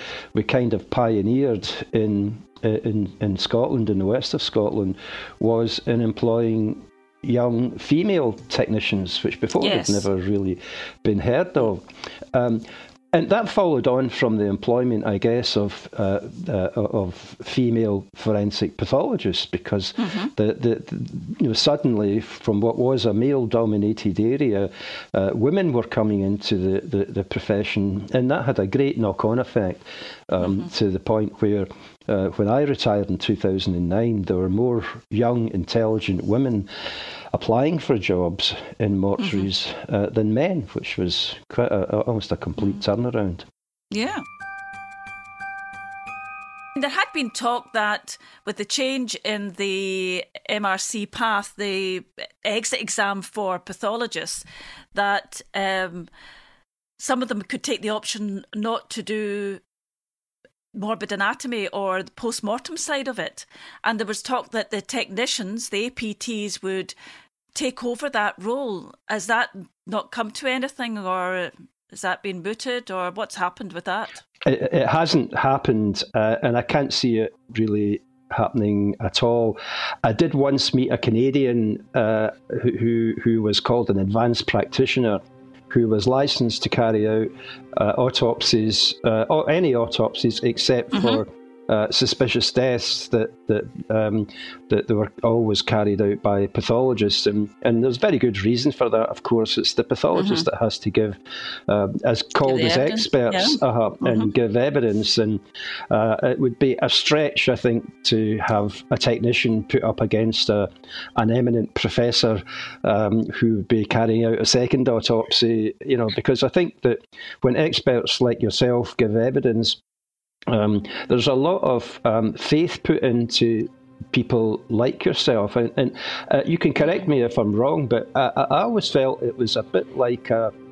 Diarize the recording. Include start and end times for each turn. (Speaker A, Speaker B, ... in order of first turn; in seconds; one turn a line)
Speaker A: 0.3-36.7
Speaker B: 9.6-10.1
Speaker B: 20.0-20.3
Speaker A: 37.3-43.5
Speaker B: 39.2-39.5
Speaker B: 43.9-44.2
Speaker B: 46.7-56.1
Speaker B: 57.0-59.6
Speaker B: 60.7-66.9
Speaker B: 67.5-74.2
Speaker A: 74.4-119.8
Speaker B: 90.9-91.2
Speaker B: 100.2-100.5
Speaker B: 102.4-104.3
Speaker A: 120.5-130.5